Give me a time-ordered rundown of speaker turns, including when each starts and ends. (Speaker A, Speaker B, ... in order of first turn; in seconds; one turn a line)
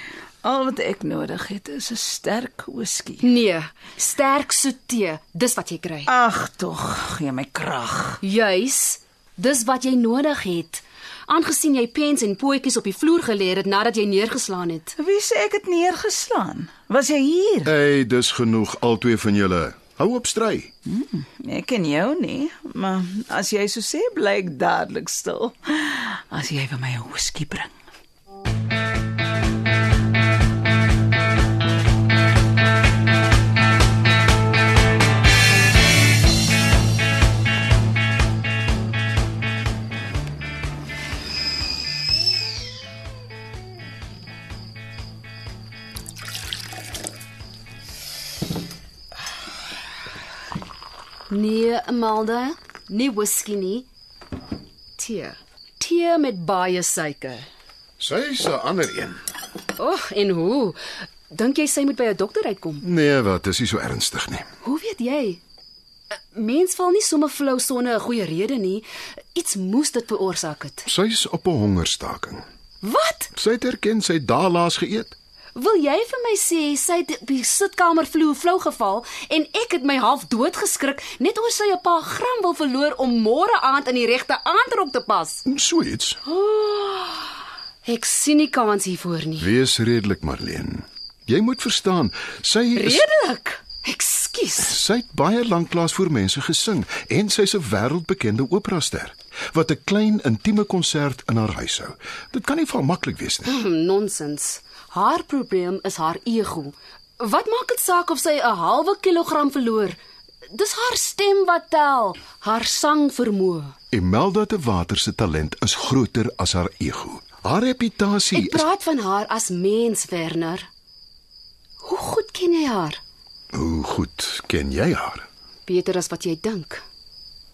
Speaker A: 0.4-3.3
Speaker B: 3.2-6.1
Speaker A: 6.1-8.2
Speaker B: 8.2-14.9
Speaker A: 15.0-17.7
Speaker C: 17.6-20.7
Speaker A: 20.9-27.7
Speaker B: 51.3-53.9
Speaker B: 55.0-57.5
Speaker C: 58.0-59.2
Speaker B: 59.8-60.8
Speaker B: 61.3-62.8
Speaker C: 62.8-64.5
Speaker B: 64.6-65.4
Speaker B: 66.3-70.8
Speaker C: 70.8-72.5
Speaker B: 72.8-73.3
Speaker C: 73.3-75.2
Speaker B: 75.5-85.4
Speaker C: 85.5-86.2
Speaker B: 86.3-87.3
Speaker B: 87.8-89.5
Speaker C: 89.4-93.0
Speaker B: 92.8-94.8
Speaker C: 94.6-103.5
Speaker B: 103.5-110.0
Speaker B: 110.5-113.7
Speaker C: 113.9-118.7
Speaker B: 118.3-120.7
Speaker B: 121.8-123.0
Speaker C: 123.5-125.3
Speaker B: 125.7-126.8